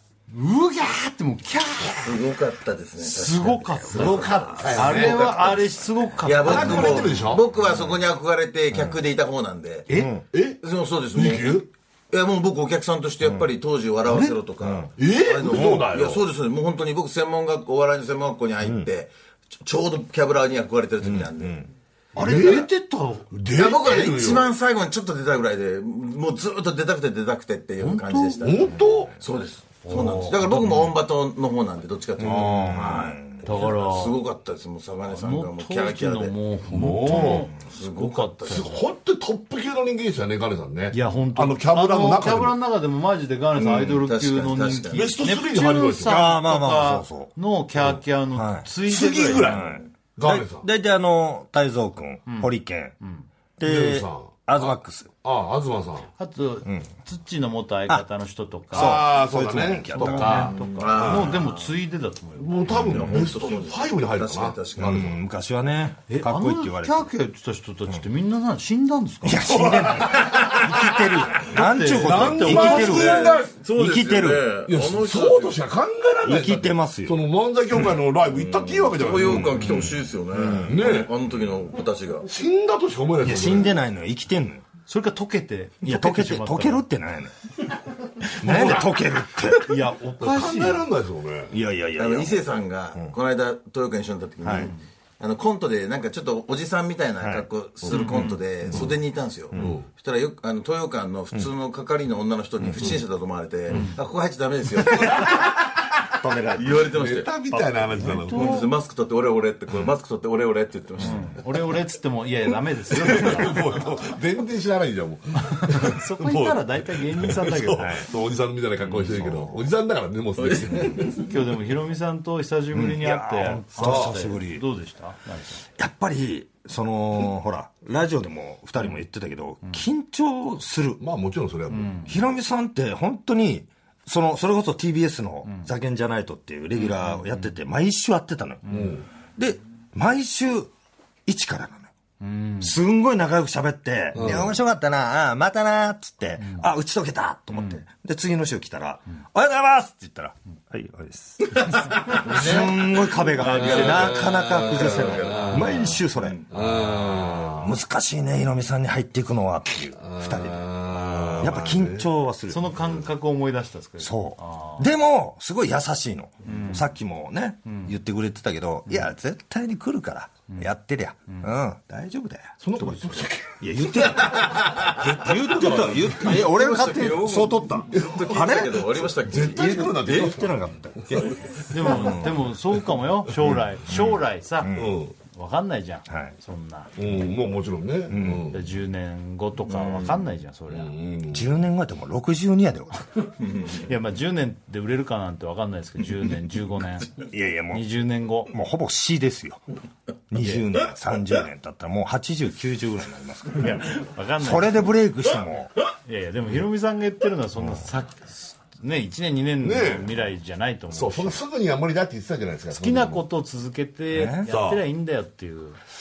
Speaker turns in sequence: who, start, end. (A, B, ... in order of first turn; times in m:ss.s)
0:00.3-0:02.2 A
0:02.0-0:05.6 B
0:03.0-0:07.3 A
0:03.9-0:05.4 C
0:06.2-0:09.9 B
0:06.4-0:07.4 C
0:09.9-0:10.2 D
0:10.3-0:10.6 C
0:10.6-0:22.7 B
0:11.1-0:11.7 C
0:14.1-0:14.4 C
0:14.6-0:14.9 D
0:15.0-0:16.2 C
0:18.6-0:18.9 D
0:21.4-0:21.6 D
0:22.2-0:23.3 A
0:22.2-0:22.7 C
0:23.3-0:24.5 C
0:23.5-0:36.4 B
0:27.8-0:28.6 A
0:28.4-0:29.1 C
0:29.9-0:30.5 C
0:29.9-0:30.9 A
0:32.2-0:33.5 D
0:32.3-0:32.8 A
0:33.4-0:34.2 A
0:35.1-0:38.8 A
0:36.7-0:37.5 C
0:37.2-0:38.8 B
0:38.5-0:42.6 C
0:40.9-0:49.8 A
0:43.6-0:45.1 B
0:43.7-0:43.9 C
0:44.9-0:46.2 C
0:46.0-0:47.3 D
0:48.3-0:48.7 D
0:48.8-0:50.7 C
0:49.4-0:53.0 D
0:52.3-0:53.3 A
0:53.6-0:55.1 D
0:53.6-0:54.7 C
0:55.2-0:56.1 C
0:56.2-0:59.0 A
0:58.7-1:00.5 D
0:58.7-1:01.4 C
0:59.9-1:03.3 A
1:00.1-1:01.8 B
1:02.4-1:05.2 C
1:02.7-1:05.1 B
1:04.8-1:07.1 D
1:06.1-1:10.0 A
1:09.2-1:14.5 D
1:09.6-1:10.6 C
1:11.4-1:13.2 A
1:11.8-1:13.6 C
1:12.5-1:15.6 B
1:14.7-1:21.1 C
1:16.2-1:17.2 D
1:18.3-1:22.3 B
1:22.3-1:23.7 C
1:23.2-1:24.6 D
1:24.9-1:26.8 A
1:25.8-1:27.3 D
1:28.2-1:29.8 D
1:28.4-1:28.9 C
1:29.6-1:30.9 A
1:30.2-1:31.6 C
1:31.5-1:33.1 D
1:32.0-1:45.5 B
1:34.4-1:34.7 D
1:37.9-1:38.2 C
1:37.9-1:38.4 A
1:39.6-1:39.9 C
1:43.7-1:44.0 A
1:45.0-1:45.3 D
1:46.2-1:46.8 D
1:46.5-1:47.3 B
1:46.9-1:48.5 C
1:47.5-1:48.7 A
1:48.0-1:51.4 B
1:51.0-1:53.8 A
1:52.9-2:01.2 C
1:55.4-1:58.1 A
1:58.9-1:59.4 A
2:00.4-2:01.2 B
2:01.0-2:05.6 A
2:02.7-2:04.6 D
2:03.8-2:04.1 C
2:05.8-2:11.0 D
2:11.0-2:12.2 C
2:11.7-2:12.1 A
2:12.1-2:18.7 D
2:16.8-2:17.5 A
2:18.7-2:19.0 A
2:18.7-2:19.1 C
2:19.4-2:20.7 D
2:21.3-2:21.9 D
2:22.2-2:22.8 A
2:22.6-2:36.4 D
2:24.2-2:24.6 C
2:26.4-2:26.7 A
2:27.5-2:27.8 A
2:32.2-2:32.7 C
2:33.4-2:34.3 A
2:33.5-2:37.6 B
2:33.7-2:35.7 C
2:36.5-2:37.7 C
2:37.6-2:40.7 D
2:40.0-2:42.1 C
2:41.1-2:41.4 A
2:41.4-2:42.9 D
2:42.5-2:44.9 A
2:44.0-3:02.4 D
2:46.4-2:46.9 A
2:47.7-2:47.9 A
2:52.6-2:56.4 C
2:55.6-2:59.8 B
2:57.9-2:58.6 C
2:59.2-3:00.6 C
3:01.1-3:01.4 C
3:01.7-3:04.7 A
3:03.4-3:04.2 C
3:04.6-3:05.0 D
3:04.7-3:05.2 C
3:05.3-3:06.9 A
3:06.1-3:06.3 D
3:07.0-3:08.6 C
3:08.1-3:08.5 D
3:08.5-3:10.9 A
3:09.7-3:10.2 B
3:10.7-3:11.5 C
3:11.3-3:13.1 D
3:13.4-3:13.8 B
3:13.8-3:17.1 A
3:17.2-3:17.9 D
3:17.7-3:18.5 A
3:18.5-3:19.6 D
3:20.3-3:25.7 D
3:23.6-3:25.0 A
3:26.0-3:31.4 A
3:29.6-3:30.1 C
3:30.9-3:33.2 C
3:32.7-3:35.8 A
3:34.1-3:34.5 D
3:34.5-3:34.8 C